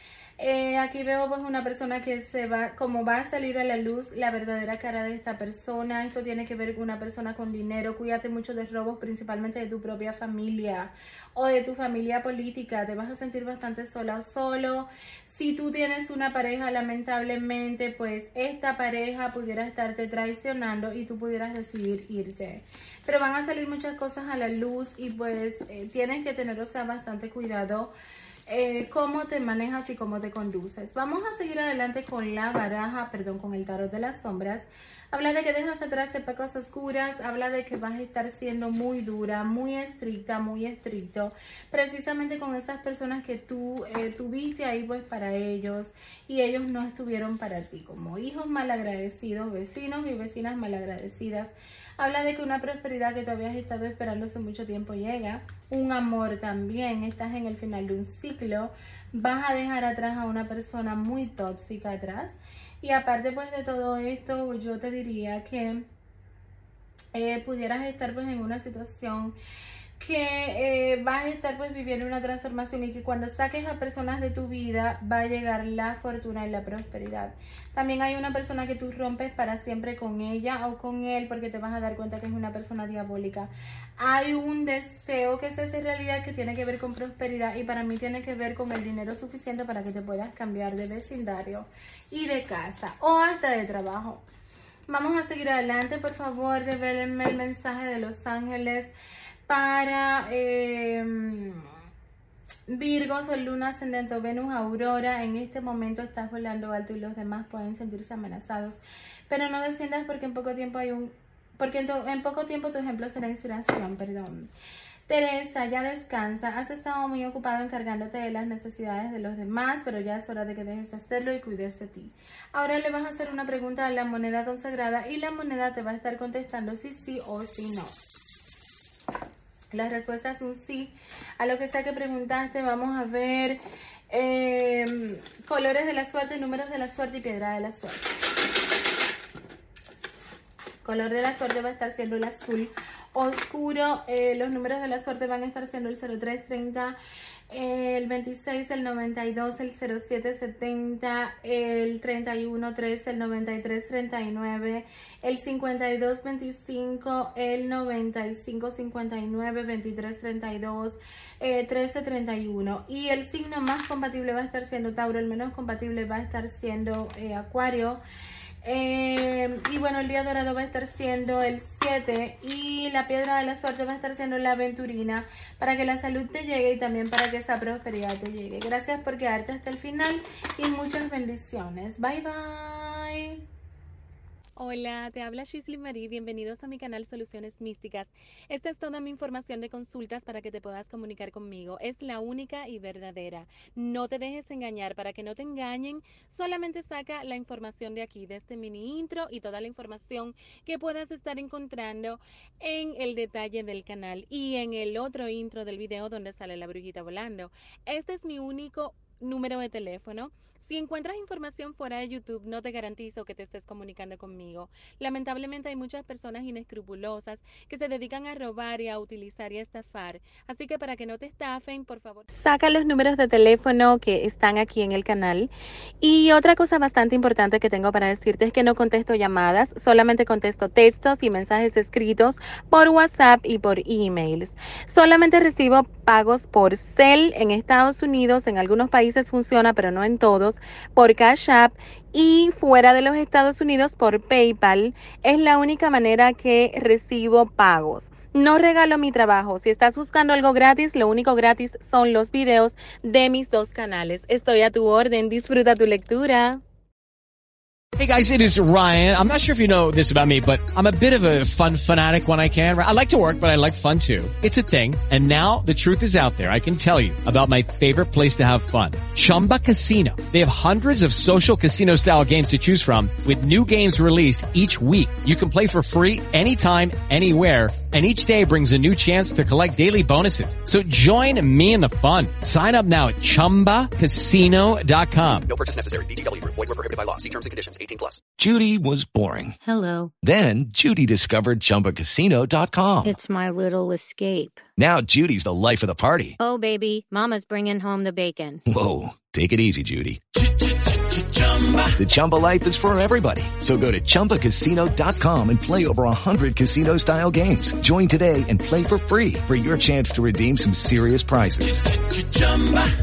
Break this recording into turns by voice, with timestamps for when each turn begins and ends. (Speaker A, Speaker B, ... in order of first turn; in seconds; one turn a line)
Speaker A: 0.4-27.9
Speaker A: 28.5-65.8
Speaker A: 67.2-69.3
Speaker A: 70.0-83.5
Speaker A: 84.0-94.2
Speaker A: 94.9-98.9
Speaker A: 99.5-101.7
Speaker A: 102.7-114.5
Speaker A: 115.1-128.0
Speaker A: 129.7-133.6
Speaker A: 134.1-138.1
Speaker A: 140.8-146.9
Speaker A: 147.5-168.0
Speaker A: 168.7-183.4
Speaker A: 184.6-225.5
Speaker A: 226.0-256.6
Speaker B: 258.0-285.5
Speaker C: 285.5-288.2
Speaker D: 288.4-289.6
Speaker E: 289.6-290.1
Speaker D: 290.2-293.2
Speaker E: 293.1-294.6
Speaker D: 294.8-296.4
Speaker E: 296.4-298.6
Speaker D: 298.7-300.2
Speaker B: 301.1-302.0
Speaker D: 302.0-311.8
Speaker B: 312.1-312.8